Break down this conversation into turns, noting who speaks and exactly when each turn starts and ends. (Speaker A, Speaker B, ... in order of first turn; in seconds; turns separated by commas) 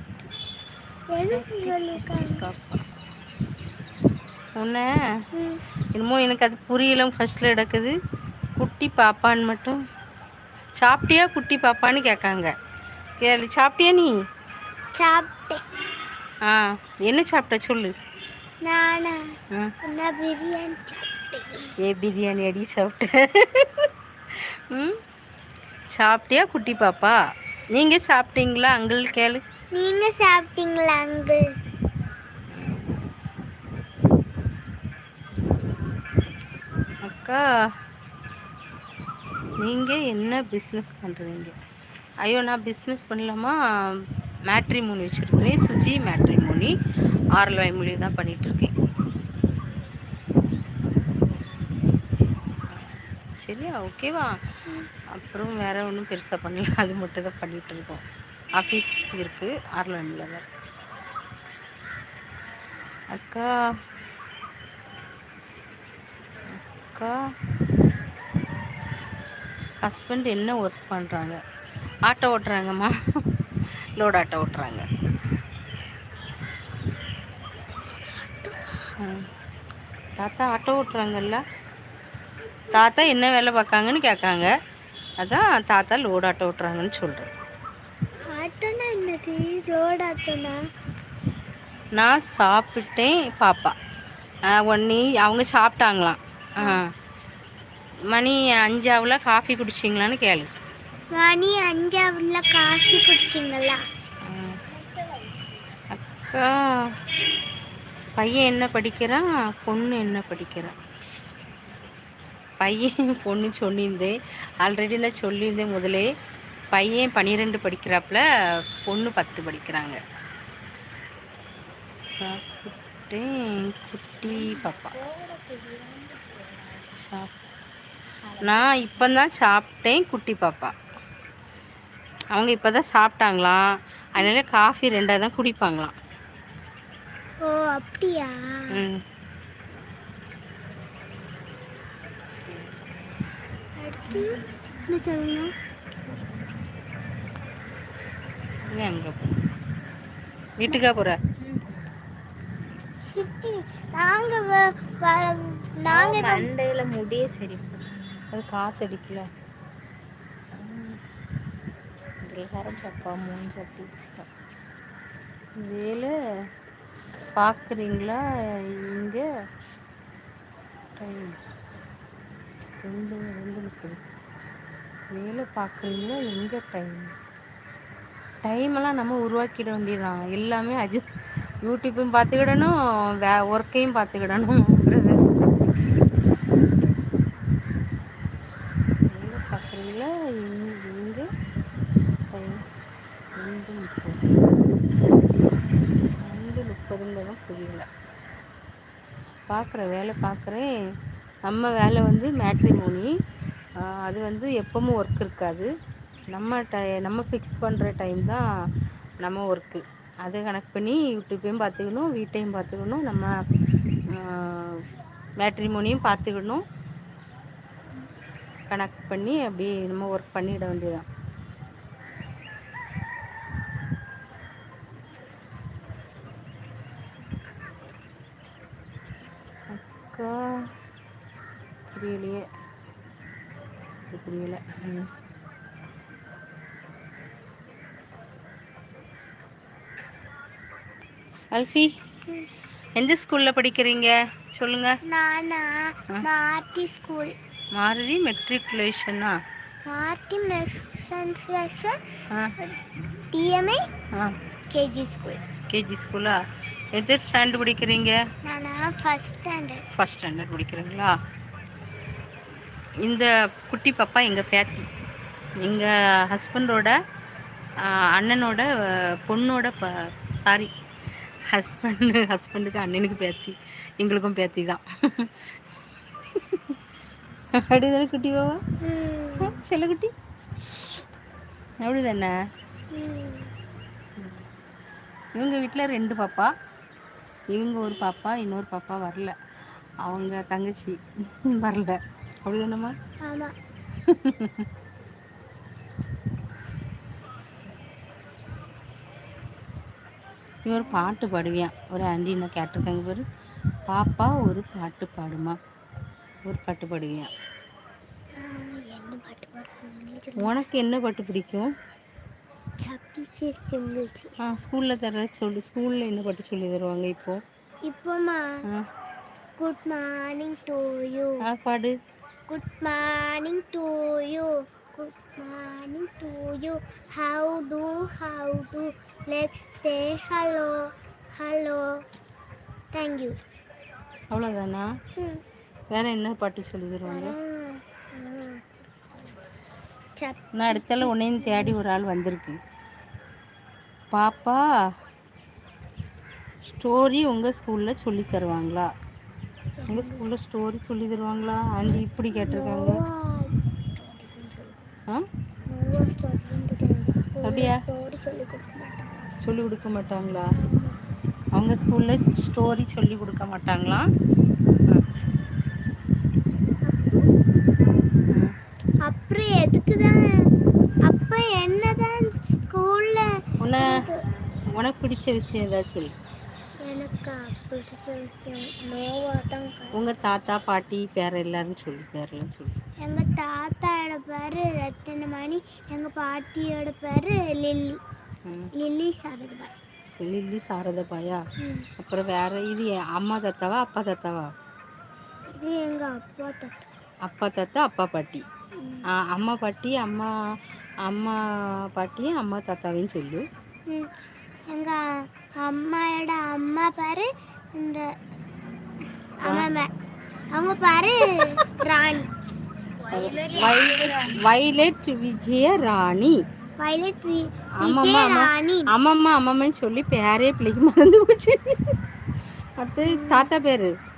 Speaker A: 1.1-2.4, Speaker B: 1.1-2.8, Speaker B: 4.6-4.9, Speaker A: 5.3-5.6, Speaker B: 5.9-7.9, Speaker B: 8.6-9.8, Speaker B: 10.8-12.5, Speaker B: 13.2-14.1, Speaker A: 14.9-15.6, Speaker B: 16.4-17.9, Speaker A: 18.6-21.7, Speaker B: 21.8-25.0, Speaker B: 25.9-27.1, Speaker B: 27.7-29.4, Speaker A: 29.7-31.4, Speaker B: 32.5-32.9, Speaker B: 37.0-37.4, Speaker B: 39.6-41.5, Speaker B: 42.2-46.7, Speaker B: 47.3-48.7, Speaker B: 52.7-54.3, Speaker B: 55.1-58.0, Speaker B: 58.5-60.5, Speaker B: 63.1-63.5, Speaker B: 66.5-67.2, Speaker B: 69.8-71.4, Speaker B: 72.0-73.4, Speaker B: 74.0-74.9, Speaker A: 78.0-78.9, Speaker B: 79.0-79.3, Speaker B: 80.2-81.4, Speaker B: 82.7-84.5, Speaker B: 85.2-87.3, Speaker A: 88.3-90.6, Speaker B: 92.0-93.7, Speaker B: 94.5-96.9, Speaker B: 98.1-100.5, Speaker A: 101.1-103.8, Speaker B: 104.2-104.6, Speaker B: 105.9-107.0, Speaker B: 108.2-110.7, Speaker B: 112.6-116.0, Speaker B: 116.7-118.2, Speaker B: 118.8-120.0, Speaker B: 122.0-125.0, Speaker A: 125.1-126.1, Speaker B: 126.9-127.3, Speaker B: 128.4-130.7, Speaker B: 132.3-135.9, Speaker A: 137.4-138.8, Speaker B: 138.7-139.0, Speaker A: 143.8-145.5, Speaker B: 148.7-149.3, Speaker B: 150.6-151.2, Speaker A: 153.1-156.5, Speaker B: 155.9-159.3, Speaker B: 160.5-161.0, Speaker B: 162.2-164.2, Speaker B: 165.6-166.1, Speaker B: 167.3-169.2, Speaker B: 171.0-171.3, Speaker B: 172.8-174.0, Speaker B: 175.1-177.1, Speaker B: 178.4-181.1, Speaker B: 181.6-182.7, Speaker B: 183.2-185.2, Speaker B: 189.1-191.3, Speaker B: 192.3-192.6, Speaker B: 193.4-194.2, Speaker B: 196.2-197.8, Speaker B: 199.5-200.7, Speaker B: 201.4-203.1, Speaker B: 203.8-205.7, Speaker B: 206.3-208.4, Speaker B: 209.2-213.3, Speaker B: 214.1-214.8, Speaker B: 215.4-216.6, Speaker B: 218.7-221.0, Speaker B: 229.7-230.7, Speaker B: 231.9-232.4, Speaker B: 234.1-235.1, Speaker B: 241.5-241.9, Speaker B: 242.9-245.0, Speaker A: 245.1-247.3, Speaker B: 247.7-249.3, Speaker A: 249.8-252.0, Speaker B: 252.3-252.5, Speaker A: 252.6-253.8, Speaker A: 254.7-255.4, Speaker B: 255.7-256.4, Speaker B: 256.9-258.1, Speaker A: 258.4-259.8, Speaker B: 259.9-261.1, Speaker B: 263.0-264.9, Speaker B: 265.6-266.9, Speaker B: 267.8-270.7, Speaker B: 271.5-275.5, Speaker B: 276.3-276.6, Speaker B: 277.6-278.6, Speaker A: 278.8-279.6, Speaker B: 279.4-280.1, Speaker B: 281.8-282.3, Speaker A: 282.9-283.5, Speaker B: 284.2-284.4, Speaker B: 285.4-286.5, Speaker B: 287.5-289.3, Speaker B: 290.0-292.9, Speaker A: 293.2-293.5, Speaker B: 294.0-294.6, Speaker B: 300.6-303.2, Speaker A: 300.7-301.2, Speaker B: 303.9-305.6, Speaker B: 306.4-307.3, Speaker A: 308.4-310.6, Speaker B: 310.4-311.7, Speaker A: 312.8-314.3, Speaker B: 314.4-317.4, Speaker A: 317.8-318.6, Speaker A: 319.6-321.4, Speaker B: 321.4-321.9, Speaker A: 322.5-332.0, Speaker A: 332.9-333.4, Speaker B: 334.3-334.9, Speaker A: 335.2-335.4, Speaker B: 335.9-337.3, Speaker A: 337.1-338.8, Speaker A: 340.2-341.8, Speaker B: 340.5-342.6, Speaker B: 344.1-344.6, Speaker B: 346.6-348.9, Speaker A: 349.8-350.3, Speaker B: 349.9-353.0, Speaker A: 352.3-354.8, Speaker A: 355.7-359.3, Speaker B: 357.4-357.8, Speaker B: 359.4-360.4, Speaker A: 360.6-361.0, Speaker B: 361.5-364.1, Speaker A: 366.8-367.3, Speaker A: 369.1-370.4, Speaker A: 371.1-374.2, Speaker B: 373.6-374.0, Speaker B: 374.7-376.1, Speaker A: 376.8-380.0, Speaker B: 379.9-382.7, Speaker A: 383.0-388.0, Speaker A: 388.7-389.7, Speaker B: 390.1-391.4, Speaker A: 391.6-391.9, Speaker B: 392.0-394.5, Speaker A: 395.6-396.9, Speaker B: 397.3-398.4, Speaker B: 399.1-400.3, Speaker B: 401.1-401.4, Speaker B: 401.9-403.4, Speaker A: 404.7-405.1, Speaker A: 405.6-408.1, Speaker A: 409.4-409.9, Speaker A: 410.5-412.3, Speaker B: 413.1-416.4, Speaker A: 413.1-414.3, Speaker A: 416.8-418.9, Speaker B: 417.8-421.9, Speaker B: 422.8-423.9, Speaker A: 423.0-423.5